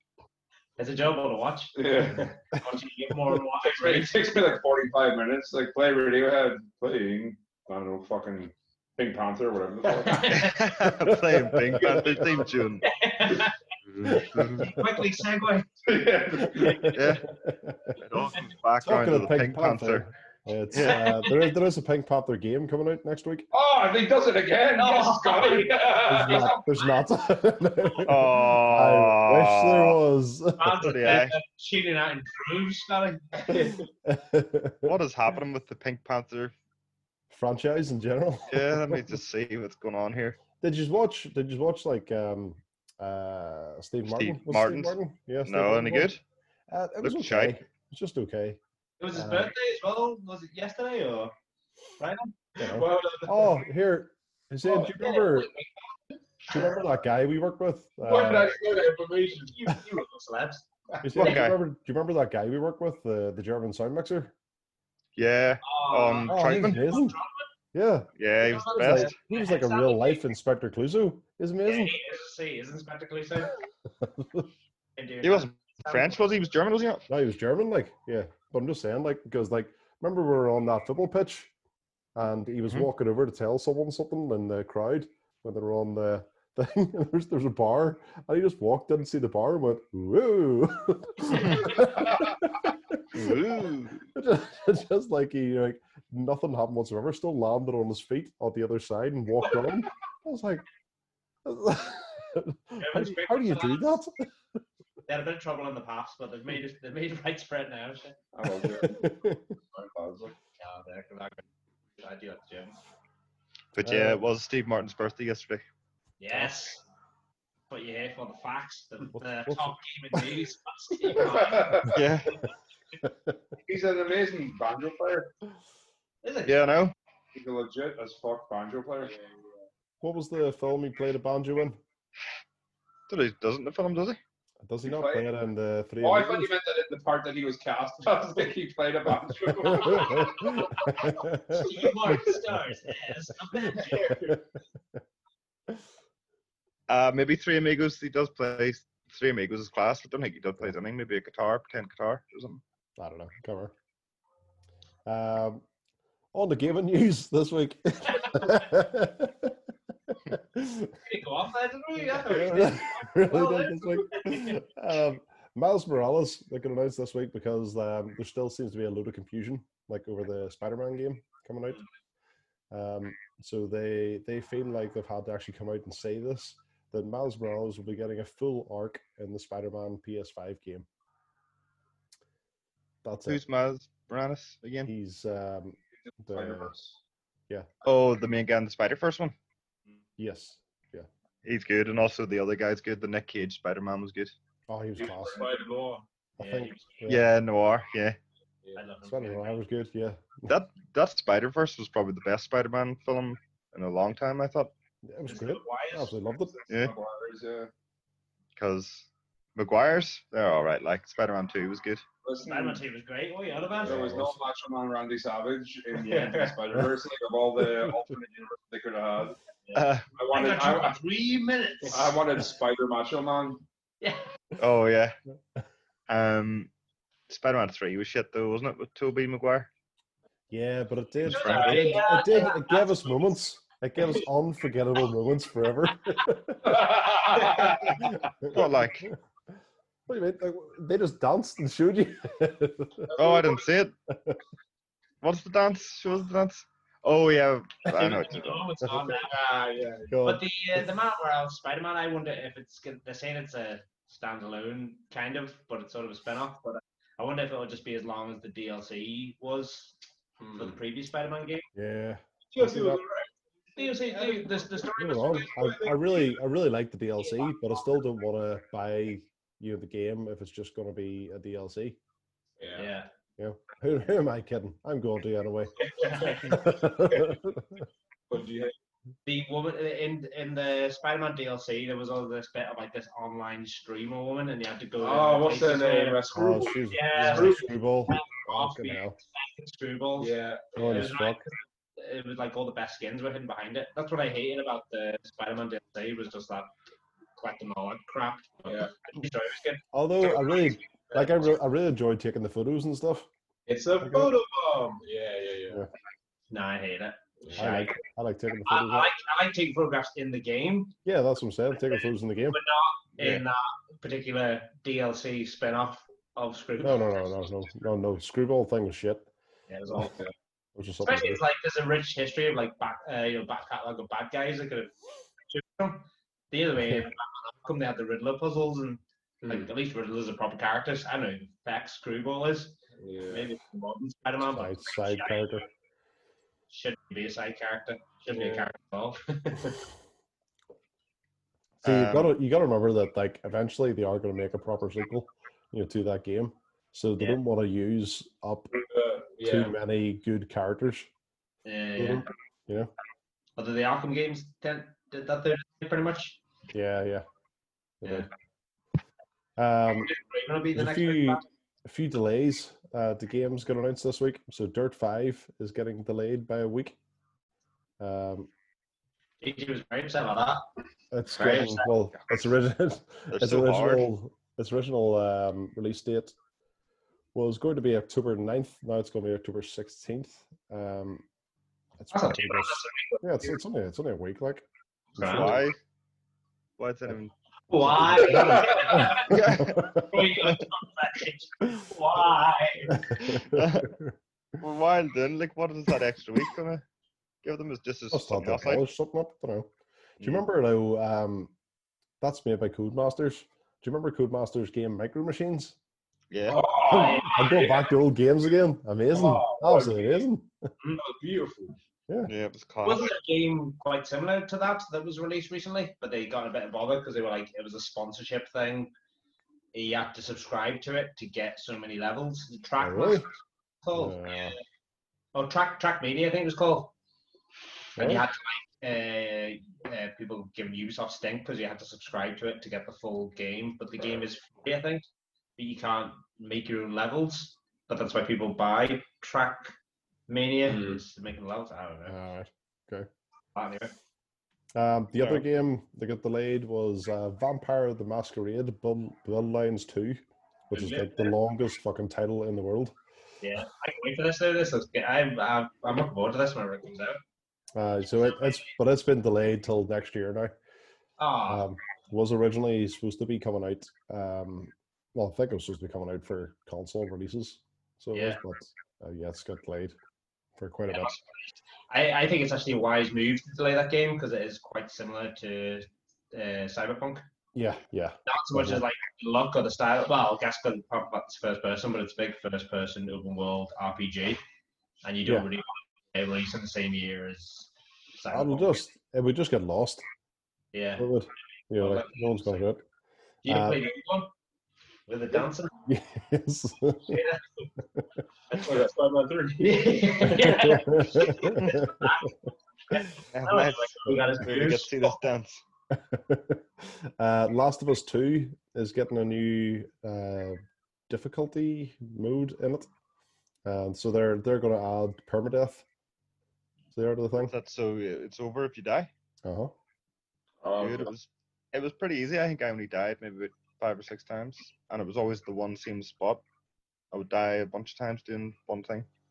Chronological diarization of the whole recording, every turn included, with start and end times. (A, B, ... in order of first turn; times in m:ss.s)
0:00.8-0:01.8 A
0:01.8-0:02.3 B
0:02.0-0:02.3 C
0:02.5-0:04.3 A
0:03.6-0:10.6 B
0:10.1-0:10.6 A
0:10.2-0:12.9 D
0:11.0-0:12.5 E
0:12.8-0:15.7 A
0:14.0-0:14.7 D
0:15.8-0:17.0 B
0:16.6-0:18.0 E
0:16.6-0:17.0 A
0:16.9-0:17.3 D
0:18.0-0:20.1 D
0:18.8-0:23.5 E
0:20.7-0:21.0 D
0:20.8-0:21.4 A
0:23.5-0:26.6 B
0:24.8-0:26.6 A
0:26.0-0:31.2 E
0:28.0-0:30.0 D
0:30.6-0:33.8 A
0:30.8-0:31.4 D
0:33.6-0:35.0 E
0:34.8-0:36.5 D
0:37.3-0:39.0 E
0:38.5-0:40.4 D
0:40.6-0:46.1 E
0:44.1-0:46.2 D
0:46.7-0:48.6 E
0:47.0-0:47.6 D
0:49.0-0:51.3 A
0:49.1-0:49.5 E
0:52.0-0:52.4 A
0:52.6-0:53.6 C
0:52.6-0:55.5 E
0:54.6-0:55.7 A
0:56.5-0:58.6 E
0:58.0-0:59.6 C
0:59.5-1:01.4 A
1:01.0-1:04.3 E
1:01.2-1:01.6 D
1:05.2-1:06.9 D
1:05.6-1:07.5 A
1:06.3-1:07.2 E
1:07.7-1:08.1 E
1:08.2-1:09.1 D
1:08.4-1:10.2 A
1:08.6-1:11.9 E
1:11.6-1:13.6 A
1:14.0-1:14.5 E
1:15.0-1:16.2 A
1:15.2-1:17.0 D
1:17.1-1:21.5 E
1:22.2-1:40.6 E
1:31.4-1:31.7 D
1:33.1-1:34.1 D
1:41.4-1:44.3 E
1:42.8-1:44.0 A
1:45.1-1:48.2 A
1:48.3-1:50.4 B
1:48.6-1:49.5 E
1:50.6-1:51.4 A
1:52.0-1:52.8 A
1:53.7-1:55.6 D
1:53.8-1:54.2 E
1:56.2-1:56.8 A
1:57.7-2:02.0 A
1:59.2-1:59.8 E
2:01.1-2:02.0 B
2:01.9-2:02.4 D
2:03.0-2:03.4 E
2:03.6-2:05.3 B
2:06.2-2:06.7 A
2:06.5-2:06.9 D
2:07.3-2:09.2 B
2:09.0-2:09.6 C
2:10.0-2:11.8 E
2:13.1-2:14.2 D
2:14.6-2:16.5 E
2:14.8-2:15.3 B
2:16.0-2:21.1 B
2:19.7-2:21.7 E
2:19.9-2:24.4 A
2:23.9-2:24.4 E
2:26.9-2:32.6 D
2:33.0-2:33.7 E
2:35.1-2:35.6 E
2:36.3-2:39.6 E
2:40.1-2:40.9 E
2:41.0-2:44.6 A
2:42.1-2:51.8 E
2:52.7-3:00.9 E
3:03.0-3:03.4 E
3:03.3-3:04.9 D
3:04.8-3:06.7 E
3:06.1-3:07.0 B
3:07.8-3:09.4 D
3:10.2-3:11.1 E
3:11.4-3:14.4 D
3:14.7-3:15.4 E
3:15.0-3:16.0 C
3:16.4-3:17.0 A
3:16.4-3:17.3 E
3:17.1-3:18.2 D
3:18.8-3:19.6 A
3:19.0-3:20.5 E
3:20.5-3:24.7 D
3:25.0-3:26.6 E
3:25.3-3:26.2 A
3:26.6-3:27.7 B
3:26.7-3:26.9 D
3:28.6-3:32.0 D
3:32.2-3:32.8 B
3:32.4-3:34.1 A
3:33.8-3:39.4 B
3:33.8-3:34.4 E
3:36.0-3:36.6 A
3:37.6-3:37.9 E
3:39.7-3:42.2 A
3:39.7-3:40.1 D
3:40.2-3:41.0 B
3:41.9-3:43.6 B
3:44.6-3:45.2 D
3:46.1-3:46.7 D
3:47.3-3:49.7 D
3:50.5-3:56.9 E
3:51.2-3:52.0 D
3:51.2-3:53.3 A
3:56.6-3:58.1 B
3:58.2-3:59.2 E
3:58.5-3:59.1 D
4:00.1-4:03.1 E
4:03.1-4:03.6 C
4:03.2-4:03.9 D
4:04.1-4:04.4 E
4:05.2-4:08.7 D
4:07.9-4:20.0 A
4:09.8-4:10.0 C
4:10.1-4:10.8 E
4:20.4-4:20.8 C
4:20.5-4:21.7 A
4:21.8-4:23.0 E
4:22.6-4:24.9 C
4:23.8-4:25.9 A
4:25.0-4:32.0 E
4:25.5-4:26.1 C
4:27.2-4:27.5 A
4:32.6-4:32.9 C
4:32.8-4:33.1 A
4:33.4-4:37.8 E
4:36.0-4:36.6 C
4:36.0-4:36.6 A
4:38.3-4:38.7 C
4:39.3-4:46.2 A
4:45.0-4:47.7 C
4:46.3-4:49.2 E
4:46.9-4:56.7 A
4:50.2-4:51.1 C
4:50.8-4:51.4 E
4:57.4-5:01.4 A
4:59.9-5:03.3 E
5:03.7-5:05.8 C
5:04.0-5:04.4 E
5:06.5-5:08.0 A
5:07.4-5:07.7 C
5:07.6-5:09.1 E
5:08.6-5:10.9 A
5:11.0-5:12.6 E
5:12.5-5:17.1 A
5:16.8-5:19.3 E
5:19.7-5:20.2 A
5:20.8-5:21.4 E
5:21.0-5:25.0 A
5:25.5-5:32.8 A
5:29.4-5:29.7 C
5:33.0-5:33.5 C
5:33.3-5:35.7 A
5:34.4-5:35.7 E
5:36.7-5:39.7 A
5:38.3-5:38.7 C
5:41.8-5:48.8 E
5:41.8-5:42.3 D
5:48.7-5:49.8 C
5:49.4-5:51.1 E
5:51.6-5:52.3 A
5:52.0-5:52.9 E
5:53.6-5:56.4 A
5:56.7-5:57.3 E
5:58.0-5:58.3 E
5:58.0-5:58.3 A
5:59.6-6:00.1 E
6:00.0-6:01.4 A
6:00.7-6:07.0 E
6:08.0-6:08.5 E
6:09.4-6:10.7 A
6:11.1-6:16.3 E
6:11.3-6:11.9 A
6:13.3-6:14.1 D
6:17.4-6:21.2 E
6:22.0-6:24.7 E
6:22.1-6:23.6 A
6:25.2-6:25.5 A
6:25.2-6:25.6 E
6:25.2-6:25.8 D
6:26.8-6:27.3 D
6:27.7-6:33.1 A
6:27.8-6:30.2 E
6:28.0-6:28.4 D
6:29.0-6:29.9 D
6:32.9-6:34.1 E
6:33.2-6:33.9 D
6:34.6-6:36.8 D
6:37.4-6:38.9 D
6:38.1-6:41.5 E
6:42.2-6:45.8 E
6:46.3-6:46.6 D
6:46.5-6:47.7 C
6:46.5-6:47.8 A
6:46.9-6:50.7 E
6:49.1-6:50.2 C
6:50.9-6:51.8 C
6:52.3-6:53.1 D
6:52.8-6:58.9 A
6:59.7-7:04.6 A
7:02.8-7:03.3 E
7:03.9-7:04.6 E
7:05.3-7:06.9 A
7:08.0-7:19.7 A
7:08.0-7:08.2 E
7:20.3-7:22.2 A
7:20.7-7:21.0 C
7:22.1-7:23.1 E
7:23.6-7:23.9 A
7:24.8-7:33.0 E
7:30.7-7:31.3 A
7:33.4-7:37.2 A
7:37.8-7:40.6 E
7:38.2-7:38.7 A
7:41.2-7:41.7 A
7:41.5-7:50.0 E
7:48.1-7:48.4 A
7:50.6-7:51.2 E
7:50.9-7:57.2 A
7:57.6-7:58.8 E
7:58.3-8:04.4 A
8:05.0-8:08.8 A
8:08.3-8:10.0 E
8:10.7-8:11.1 A
8:11.0-8:12.8 E
8:11.8-8:12.6 A
8:13.4-8:14.3 A
8:13.5-8:13.9 E
8:15.1-8:15.7 A
8:15.9-8:17.2 E
8:17.1-8:17.7 A
8:18.5-8:18.9 A
8:18.5-8:20.7 C
8:19.6-8:22.4 A
8:20.3-8:22.3 E
8:22.9-8:25.2 A
8:23.3-8:25.6 D
8:25.9-8:32.9 E
8:33.7-8:35.8 E
8:36.9-8:37.5 E
8:37.4-8:39.1 D
8:39.4-8:39.7 E
8:40.6-8:41.1 C
8:40.8-8:46.4 D
8:47.1-8:49.1 D